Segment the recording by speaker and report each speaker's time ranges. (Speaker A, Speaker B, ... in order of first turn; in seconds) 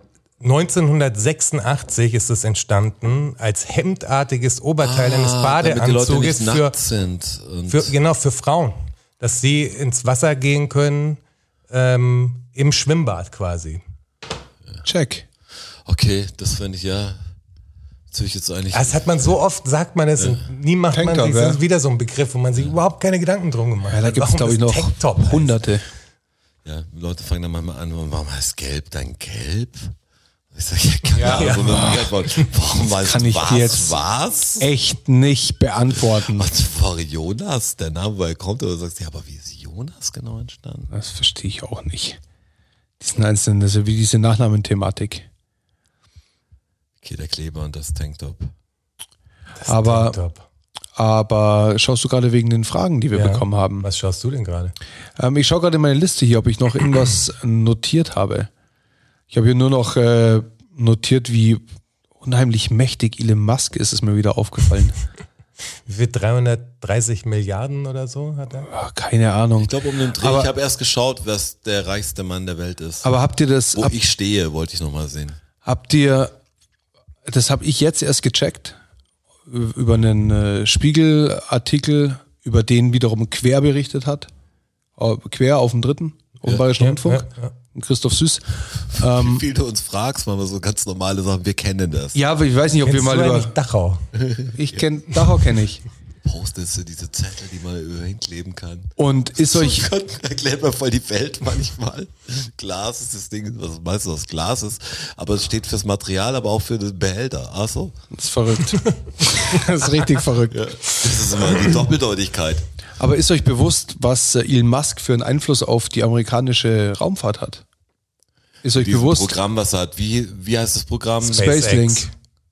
Speaker A: 0.4-6.7, 7.7-13.8, 18.7-25.6, 31.2-32.1, 49.6-50.4, 53.1-54.7, 65.8-68.7, 86.8-87.5, 92.8-94.0, 121.2-122.1
Speaker B: 4.8-7.9, 15.8-17.2, 18.1-19.3, 26.6-29.9, 30.5-34.7, 36.1-40.9, 47.0-48.5, 69.6-73.1, 73.7-75.4, 88.9-92.2, 94.1-94.8, 96.2-108.0, 110.5-112.6, 118.7-121.5
Speaker C: 14.8-15.2, 20.9-21.6, 23.9-25.9, 31.1-32.1, 32.9-34.0, 34.6-36.5, 40.9-42.2, 43.0-45.2, 49.6-50.2, 51.0-53.9, 55.2-58.5, 59.3-61.6, 62.2-65.0, 68.7-70.5, 73.0-74.0, 75.6-76.3, 77.2-78.8, 79.5-84.3, 85.0-89.4, 92.1-93.5, 94.5-95.8, 99.0-99.8, 108.1-110.7, 113.0-117.6, 118.6-119.3, 121.2-122.1